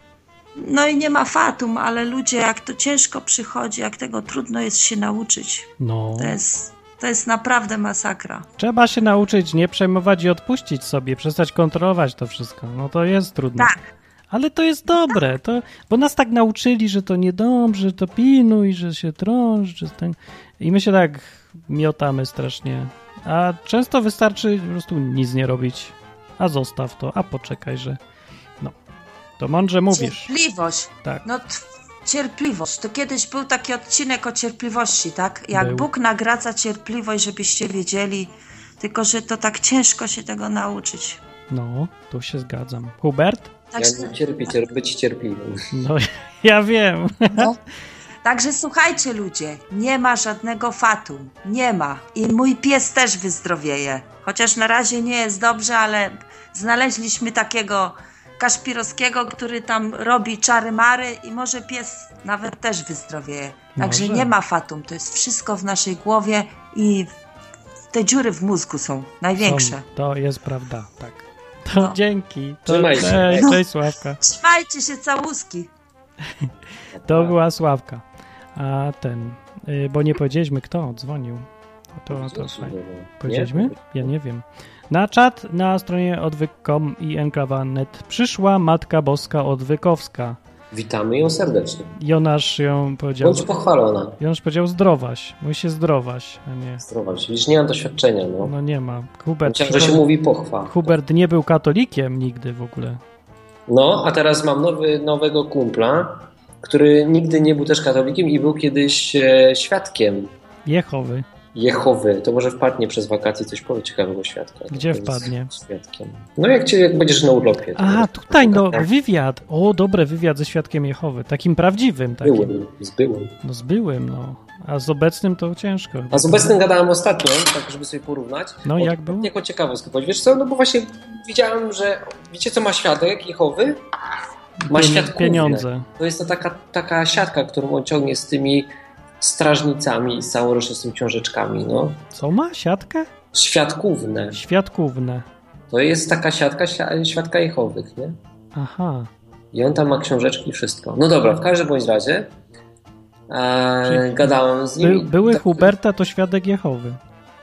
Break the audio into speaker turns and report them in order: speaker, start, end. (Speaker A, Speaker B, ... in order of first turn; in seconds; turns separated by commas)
Speaker A: 0.6-8.4, Speaker B: 5.8-6.4, Speaker B: 8.6-13.7, Speaker B: 14.3-28.0, Speaker B: 29.4-30.3, Speaker A: 29.9-41.2, Speaker B: 35.5-35.9, Speaker B: 41.5-43.5, Speaker A: 43.7-44.1, Speaker C: 43.8-45.7, Speaker B: 45.7-47.5, Speaker A: 47.3-47.6, Speaker A: 48.2-67.1, Speaker B: 63.8-64.3, Speaker A: 67.9-69.8, Speaker B: 69.4-74.2, Speaker C: 72.7-73.5, Speaker A: 73.3-73.6, Speaker A: 74.2-75.7, Speaker C: 76.9-77.4, Speaker B: 77.0-78.0, Speaker B: 78.5-90.4, Speaker C: 82.1-84.1, Speaker C: 90.7-91.9, Speaker B: 92.0-93.5, Speaker C: 93.2-94.2, Speaker B: 94.2-96.8, Speaker C: 96.8-98.5, Speaker B: 98.4-100.0, Speaker C: 99.4-100.9, Speaker B: 100.7-103.0, Speaker C: 103.7-110.3, Speaker B: 110.7-111.2, Speaker C: 111.5-118.9, Speaker B: 114.7-115.5, Speaker B: 117.8-122.5, Speaker C: 122.2-123.3, Speaker B: 123.4-126.5, Speaker C: 126.1-133.8, Speaker B: 128.6-129.3, Speaker B: 134.6-135.9, Speaker C: 134.7-142.0, Speaker B: 142.1-143.1, Speaker C: 143.3-144.4, Speaker B: 144.3-145.2, Speaker C: 145.7-148.2, Speaker B: 148.5-149.1, Speaker C: 149.5-152.3, Speaker C: 153.3-155.7, Speaker B: 153.8-157.0